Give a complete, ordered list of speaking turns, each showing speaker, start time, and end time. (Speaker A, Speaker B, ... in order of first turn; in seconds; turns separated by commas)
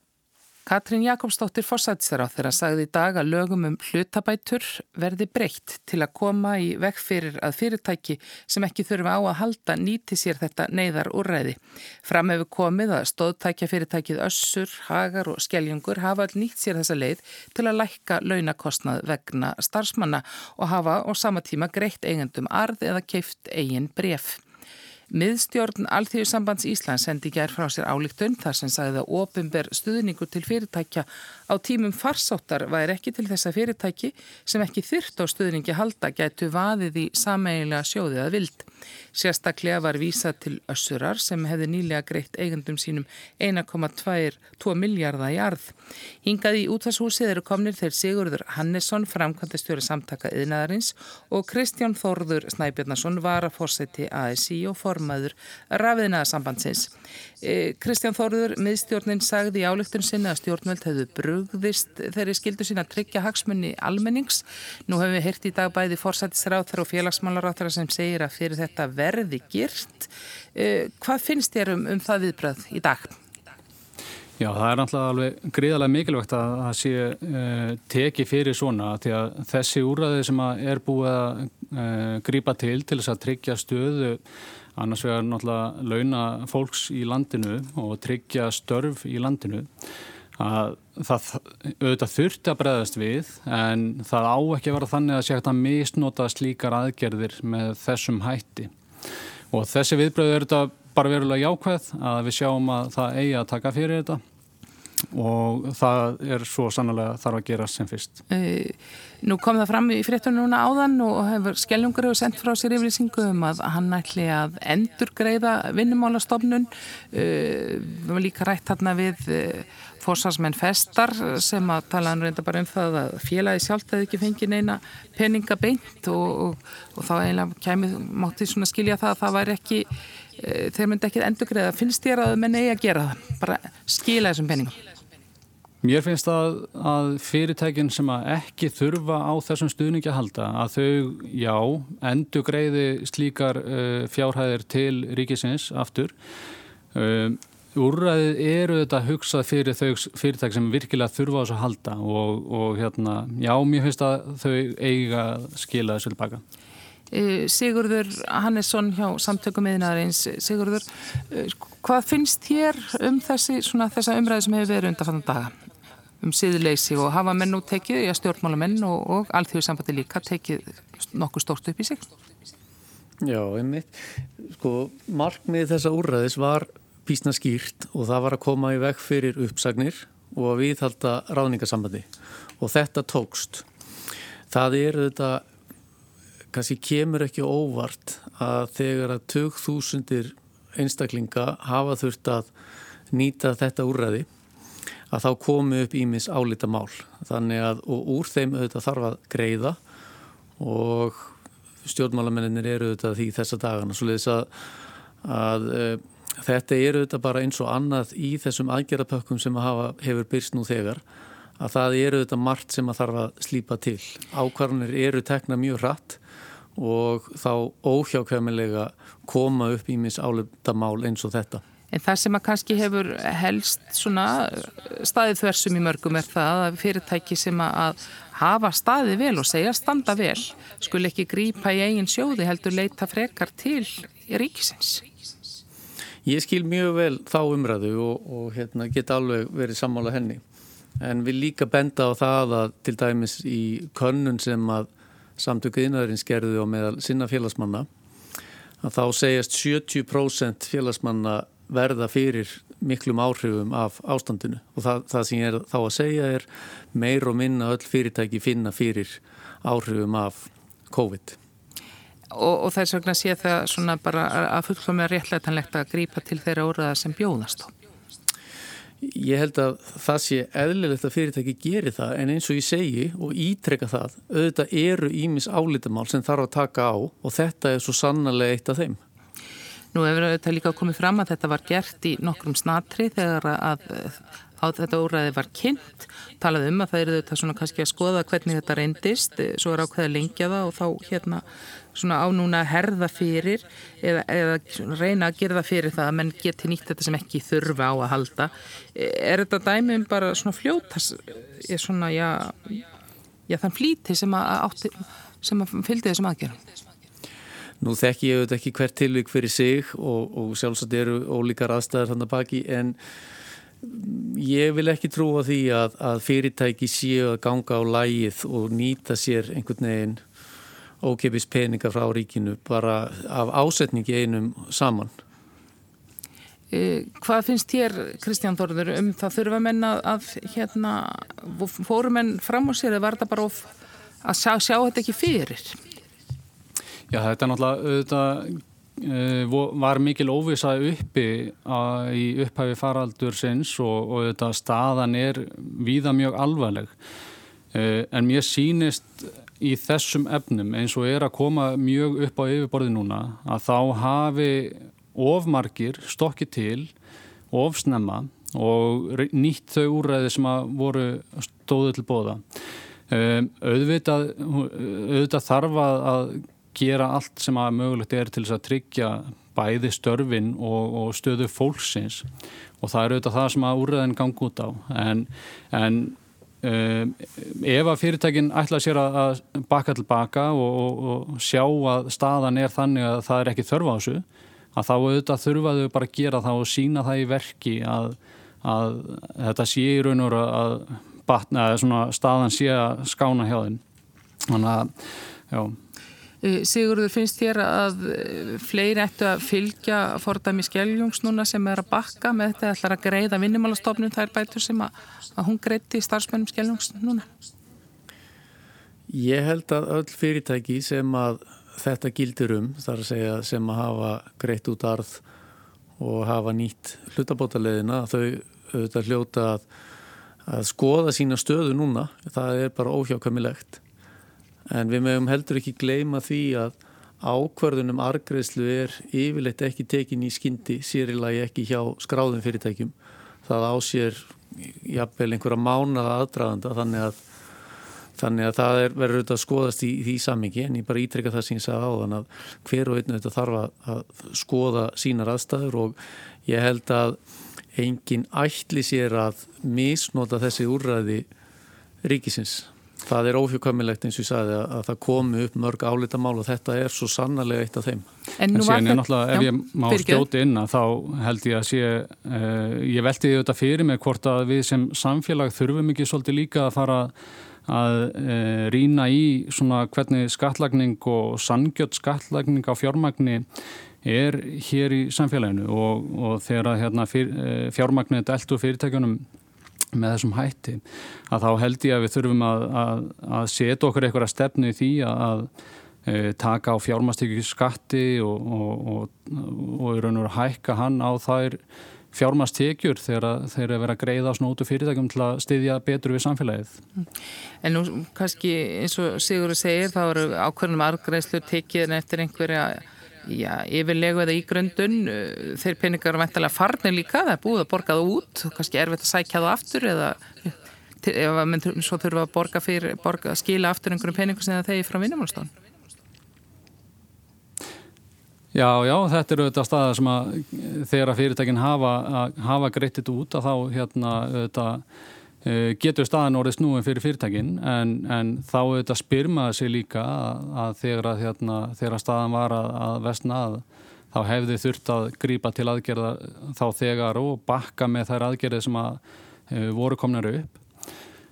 Speaker A: 0.7-24.4, Speaker A: 25.1-73.2, Speaker B: 74.4-84.2, Speaker B: 84.8-89.7, Speaker B: 90.4-98.7, Speaker B: 99.5-104.2, Speaker B: 105.1-108.2, Speaker A: 108.3-134.8, Speaker B: 135.8-146.1, Speaker B: 146.9-156.4, Speaker A: 157.1-165.6, Speaker A: 166.2-172.1, Speaker C: 173.2-182.1, Speaker C: 182.6-183.7, Speaker C: 184.5-185.4, Speaker C: 186.5-192.5, Speaker C: 193.1-194.3, Speaker C: 195.1-199.8, Speaker C: 200.6-204.5, Speaker C: 205.2-211.0, Speaker C: 211.6-216.2, Speaker C: 216.8-221.6, Speaker A: 221.9-235.0, Speaker C: 236.2-240.4, Speaker C: 241.0-247.9, Speaker C: 248.8-261.4, Speaker A: 262.3-267.7, Speaker C: 269.0-279.0, Speaker A: 279.9-302.8, Speaker A: 303.5-306.6, Speaker C: 307.8-313.0, Speaker C: 313.8-320.2, Speaker C: 321.0-325.1, Speaker A: 326.7-333.7, Speaker A: 334.2-335.8, Speaker B: 337.1-346.9, Speaker B: 347.7-356.9, Speaker B: 357.5-362.4, Speaker B: 363.1-372.2, Speaker B: 372.8-393.8, Speaker B: 394.5-394.9, Speaker B: 395.5-395.8, Speaker A: 396.4-407.3, Speaker C: 409.1-415.2, Speaker C: 416.0-419.6, Speaker C: 420.5-423.8, Speaker C: 424.7-432.9, Speaker C: 433.4-437.2, Speaker C: 438.2-447.2, Speaker C: 447.7-451.3, Speaker C: 452.0-458.1, Speaker A: 458.4-460.2, Speaker B: 458.5-467.1, Speaker B: 467.7-473.4, Speaker B: 474.0-479.2, Speaker B: 479.9-485.5, Speaker B: 486.1-491.6, Speaker B: 492.1-496.8, Speaker A: 497.6-515.5, Speaker B: 518.5-524.8, Speaker B: 525.4-540.6